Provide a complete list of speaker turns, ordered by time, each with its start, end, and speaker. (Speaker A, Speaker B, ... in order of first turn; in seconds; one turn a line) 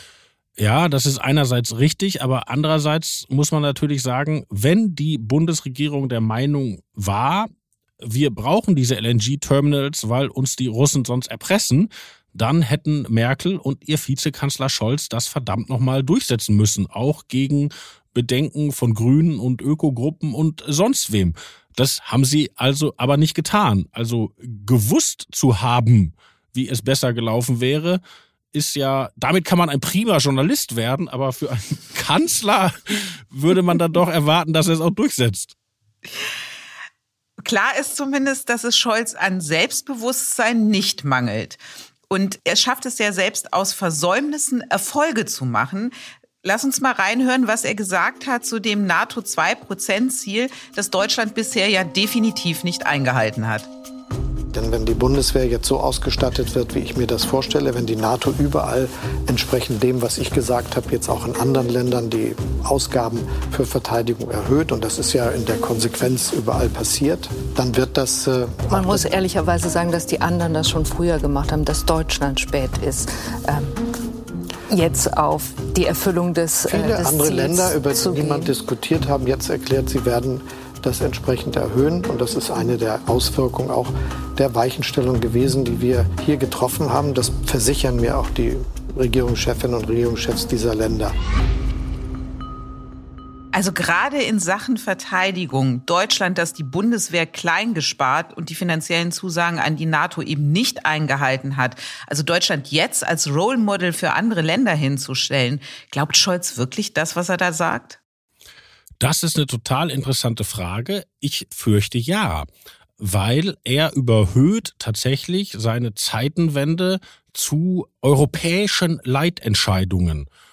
Speaker A: 0.6-7.5
Speaker A: 8.0-28.0
Speaker A: 28.5-35.5
Speaker B: 37.4-53.7
Speaker C: 54.5-69.1
Speaker D: 68.7-73.8
Speaker D: 74.7-78.5
Speaker C: 76.7-91.1
Speaker B: 93.5-108.0
Speaker A: 109.0-112.5
Speaker A: 113.0-120.3